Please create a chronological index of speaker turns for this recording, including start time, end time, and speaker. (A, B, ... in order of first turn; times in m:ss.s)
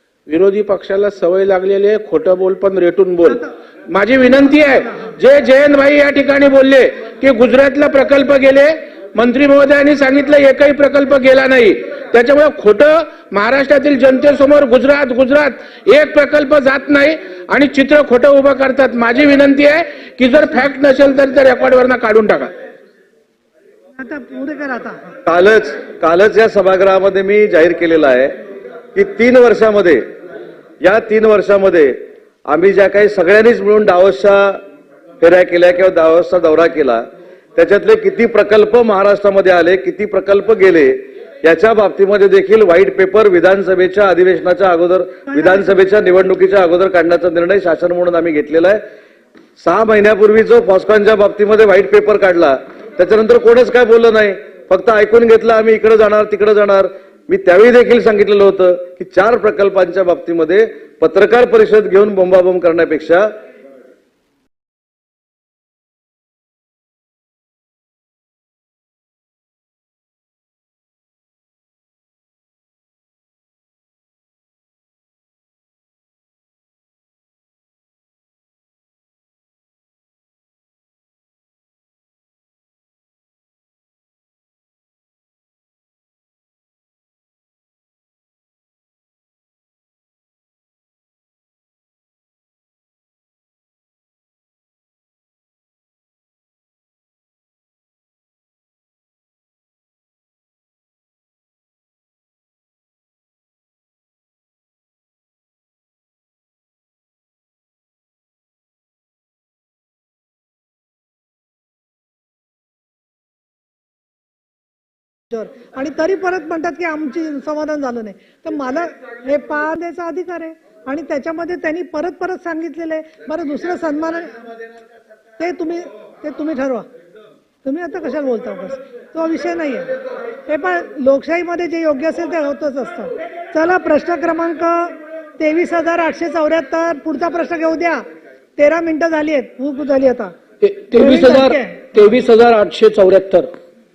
0:00.3-0:22.5 A
0:04.4-0:05.1 B
0:24.0-0:25.2 B
0:25.2-0:28.4 C
0:28.9-0:30.0 C
0:30.8-0:34.6 C
0:35.2-0:37.0 C
0:37.5-0:48.8 C
0:49.6-1:03.3 C
1:55.3-2:04.4 B
2:05.4-2:06.9 B
2:07.6-2:09.9 B
2:10.4-2:18.0 B
2:18.6-2:20.3 B
2:20.6-2:21.0 A
2:20.9-2:21.8 B
2:20.9-2:23.5 D